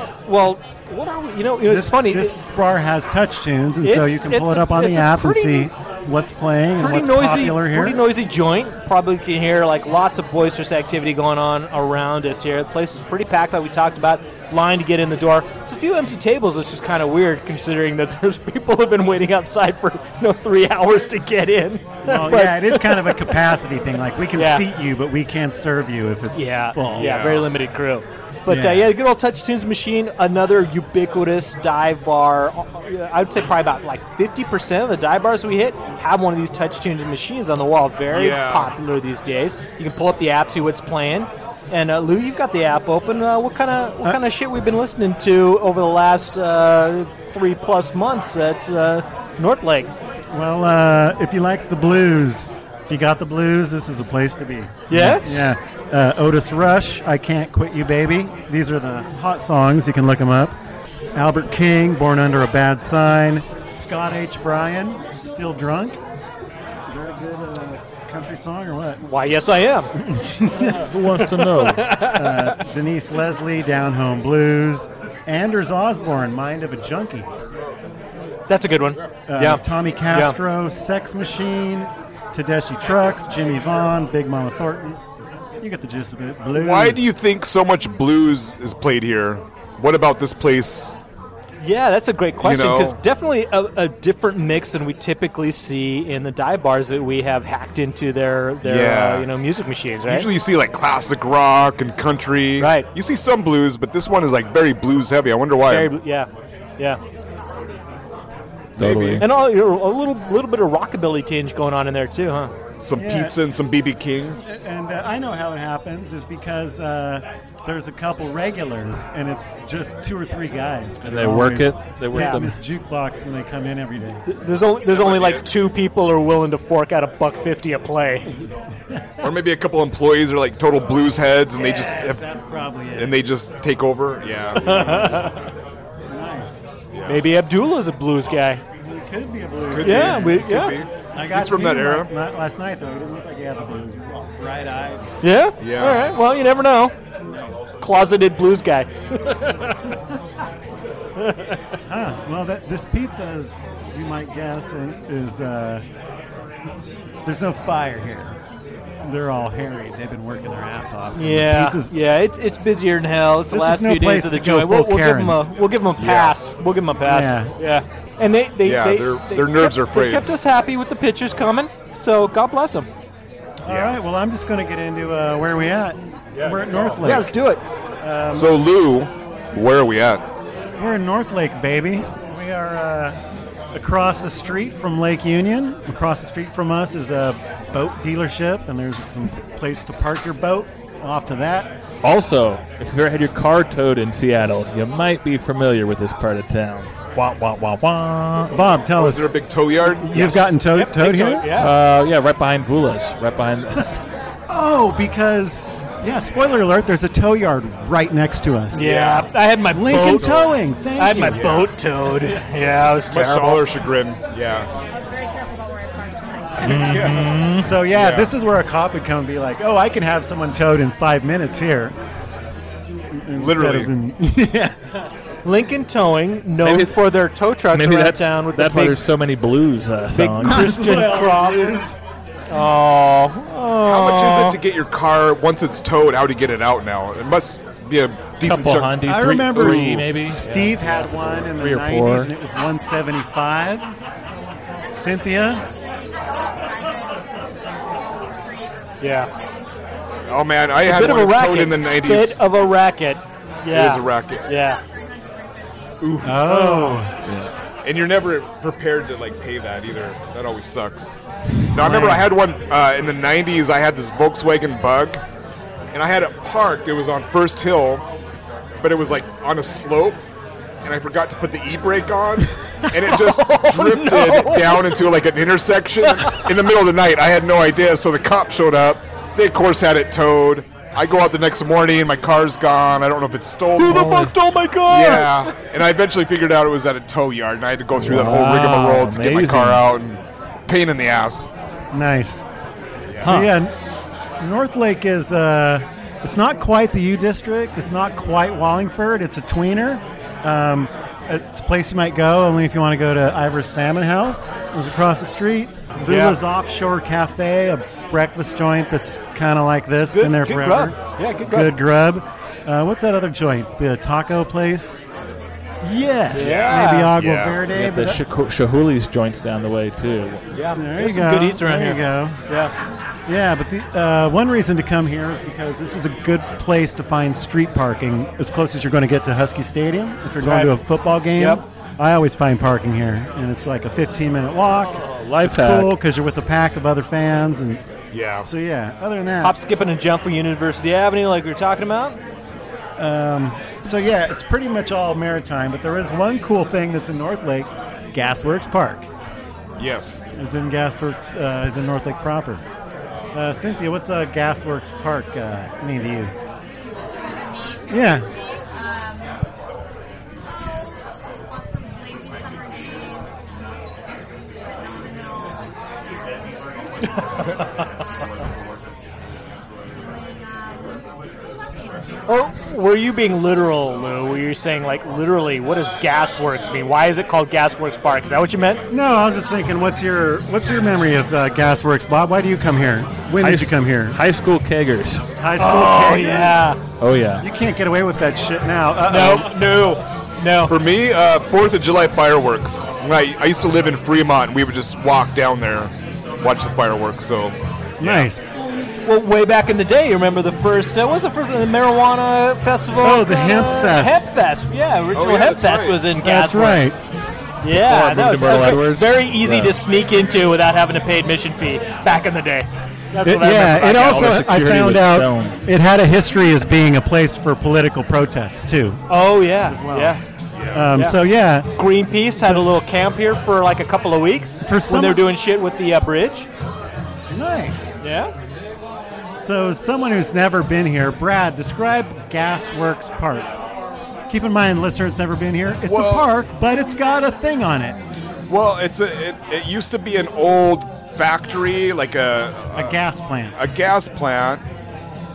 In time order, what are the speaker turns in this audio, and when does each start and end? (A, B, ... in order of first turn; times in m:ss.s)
0:00.2-0:02.4 A
0:01.6-0:08.0 B
0:03.8-0:05.7 A
0:06.8-0:23.4 A
0:22.0-0:27.1 B
0:24.3-0:24.6 A
0:26.3-0:49.9 A
0:26.9-0:27.5 C
0:28.5-0:28.9 B
0:38.1-0:38.7 C
0:50.3-1:00.6 B
0:54.9-0:55.5 A
1:01.1-1:06.0 B
1:06.9-1:09.0 B
1:09.0-1:09.9 A
1:10.0-1:10.9 B
1:10.6-1:12.0 D
1:11.1-1:12.6 A
1:12.0-1:17.3 B
1:18.5-1:20.4 A
1:19.3-1:25.0 B
1:25.6-1:27.1 B
1:26.5-1:31.0 C
1:31.6-1:40.3 A
1:32.4-1:33.0 C
1:38.6-1:39.3 C
1:40.0-1:45.9 C
1:42.6-1:42.9 A
1:45.6-1:47.0 A
1:47.0-1:48.2 E
1:48.8-1:49.2 C
1:48.8-1:49.3 D
1:49.2-1:52.5 A
1:52.8-1:54.4 C
1:53.0-1:53.3 B
1:54.4-2:04.3 B
2:01.0-2:02.6 D
2:02.1-2:02.4 A
2:04.2-2:08.3 A
2:04.9-2:05.4 C
2:09.2-2:12.2 C
2:11.5-2:13.2 B
2:12.9-2:15.2 C
2:14.6-2:15.5 A
2:14.7-2:15.1 B
2:16.1-2:16.6 B
2:16.9-2:17.2 C
2:17.0-2:18.6 A
2:18.8-2:20.5 B
2:19.7-2:22.1 C
2:19.8-2:20.8 A
2:21.1-2:25.1 B
2:25.2-2:26.9 A
2:25.6-2:26.2 C
2:27.2-2:27.7 B
2:27.8-2:29.9 A
2:31.2-2:31.6 A
2:31.8-2:35.8 B
2:37.2-2:38.4 B
2:39.0-2:42.0 B
2:41.1-2:52.9 A
2:43.5-2:45.4 B
2:46.0-2:46.4 C
2:47.0-2:47.5 B
2:48.6-2:50.3 C
2:53.6-2:57.4 B
2:53.6-2:54.0 C
2:57.0-2:57.6 A
2:58.0-2:58.5 B
2:58.3-3:00.2 C
3:00.8-3:03.2 B
3:03.7-3:11.7 B
3:12.0-3:18.6 D
3:18.5-3:21.5 B
3:18.9-3:20.5 C
3:20.6-3:21.7 A
3:21.5-3:23.9 D
3:24.5-3:28.9 B
3:28.7-3:33.7 A
3:28.8-3:29.3 C
3:29.7-3:31.6 B
3:29.9-3:30.5 C
3:31.3-3:31.7 C
3:33.1-3:34.7 C
3:34.9-3:37.2 E
3:36.6-3:37.8 D
3:36.7-3:37.3 C
3:37.0-3:41.9 B
3:37.9-3:38.3 C
3:43.1-3:44.8 B
3:43.3-3:43.9 C
3:45.4-3:49.0 A
3:46.6-3:47.0 D
3:47.7-3:50.8 D
3:50.1-3:51.8 A
3:50.4-3:52.0 B
3:52.5-3:54.6 A
3:53.8-3:59.0 C
3:58.4-4:02.3 D
3:59.0-4:03.9 B
3:59.5-3:59.9 C
4:04.9-4:05.6 B
4:05.4-4:09.9 E
4:09.0-4:09.3 A
4:10.3-4:12.4 C
4:10.8-4:14.8 A
4:13.7-4:14.5 C
4:14.5-4:16.1 E
4:16.0-4:16.6 C
4:16.2-4:17.1 B
4:16.4-4:17.0 A
4:17.2-4:17.5 D
4:17.8-4:21.1 C
4:21.7-4:25.2 C
4:21.8-4:22.2 B
4:25.9-4:28.0 C
4:28.8-4:30.2 C
4:30.8-4:44.2 C
4:33.1-4:35.0 A
4:36.0-4:36.5 A
4:43.8-4:45.5 A
4:43.9-4:44.3 D
4:44.9-4:51.5 C
4:48.0-4:49.8 D
4:51.9-4:52.4 B
4:53.1-4:53.4 C
4:53.2-4:53.8 B
4:53.2-4:53.5 A
4:54.4-5:15.0 B
5:06.0-5:06.4 A
5:10.1-5:11.8 A
5:15.8-5:18.2 B
5:16.3-5:17.2 A
5:16.3-5:17.6 C
5:17.7-5:20.4 D
5:20.5-5:22.7 A
5:20.7-5:22.4 B
5:23.3-5:37.8 B
5:30.4-5:30.8 A
5:31.4-5:31.6 A
5:35.0-5:35.9 D
5:38.1-5:38.5 C
5:38.4-5:39.6 B
5:39.4-5:42.2 A
5:43.0-5:49.1 B
5:49.8-5:50.2 C
5:50.4-5:52.6 B
5:53.3-5:56.3 B
5:57.2-5:59.5 E
5:57.9-5:58.3 B
6:00.4-6:03.5 E
6:04.6-6:08.5 E
6:07.4-6:07.6 A
6:09.9-6:11.0 E
6:11.8-6:12.0 E
6:12.3-6:18.8 A
6:18.9-6:24.2 B
6:23.4-6:25.2 D
6:25.4-6:26.6 B
6:25.6-6:26.8 A
6:27.0-6:27.4 D
6:27.4-6:29.5 B
6:29.1-6:30.8 A
6:30.7-6:38.3 C
6:38.0-6:38.5 B
6:39.0-6:47.0 A
6:43.0-6:44.3 B
6:45.1-6:46.1 C
6:46.2-6:47.0 B
6:47.6-6:54.4 A
6:47.7-6:49.8 D
6:53.2-6:59.0 B
6:53.9-6:55.6 D
6:59.1-7:00.2 A
6:59.6-7:00.2 B
7:00.5-7:00.9 C
7:00.7-7:01.7 B
7:00.9-7:01.2 A
7:01.7-7:06.5 A
7:02.4-7:02.7 B
7:04.6-7:05.2 B
7:07.3-7:08.0 B
7:08.0-7:08.3 A
7:09.4-7:13.5 B
7:14.3-7:18.0 B
7:15.8-7:16.3 C
7:18.5-7:23.0 C
7:22.7-7:23.6 B
7:23.5-7:24.6 C